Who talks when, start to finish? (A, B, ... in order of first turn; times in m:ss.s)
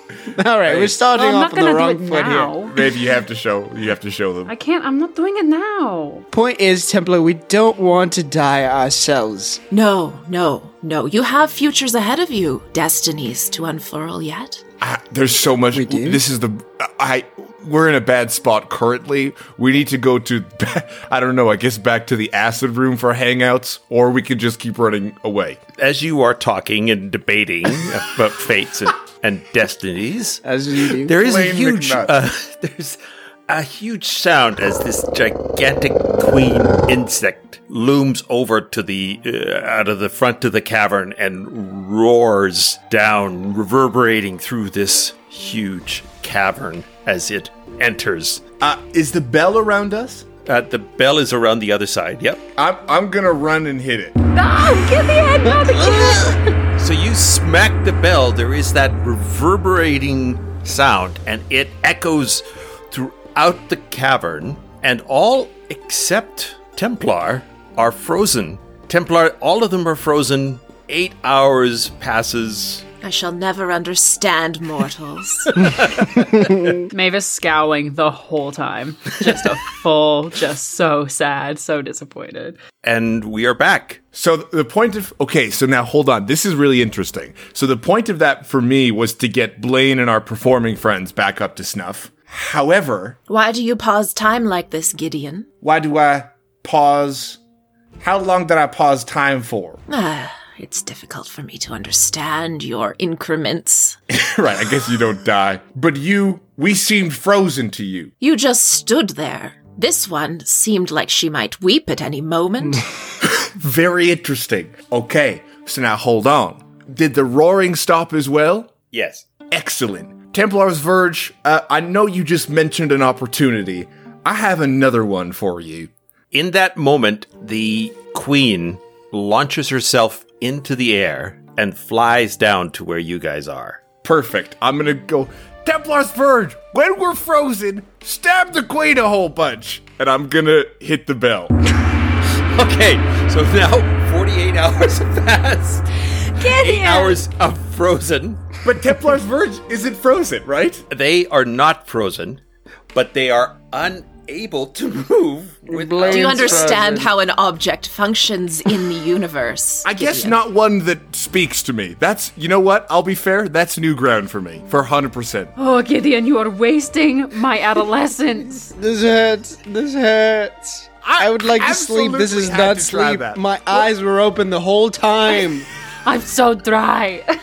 0:00.3-0:02.5 A
0:00.6-0:00.9 B
0:01.1-0:02.8 C
0:02.6-0:04.5 B
0:04.5-0:06.2 C
0:06.3-0:09.6 A
0:09.7-0:14.6 D
0:14.8-0:25.6 B
0:15.7-0:16.2 A
0:25.8-0:48.4 E
0:30.4-0:31.1 A
0:31.1-0:32.1 B
0:48.6-0:50.3 B
0:50.4-0:52.4 E
0:52.6-0:54.2 B
0:54.3-0:56.4 C
0:55.4-0:56.4 A
0:56.8-1:12.8 E
1:13.0-1:16.0 D
1:16.9-1:22.6 C
1:22.8-1:24.0 E
1:24.1-1:33.2 B
1:33.3-1:35.5 D
1:35.6-1:37.4 B
1:38.0-1:39.8 B
1:39.9-1:44.0 D
1:44.1-1:48.1 B
1:48.2-1:52.8 D
1:53.2-1:58.7 B
1:58.9-1:59.3 E
1:59.5-2:05.9 B
2:06.3-2:13.8 E
2:14.0-2:21.5 B
2:22.5-2:28.4 E
2:26.3-2:27.2 C
2:28.6-2:30.8 B
2:30.9-2:32.4 E
2:32.9-2:36.8 E
2:35.7-2:37.1 A
2:36.0-2:40.4 D
2:39.8-2:45.5 B
2:45.6-2:48.7 C
2:48.8-2:55.7 A
2:51.0-2:53.8 B
2:56.0-2:57.3 C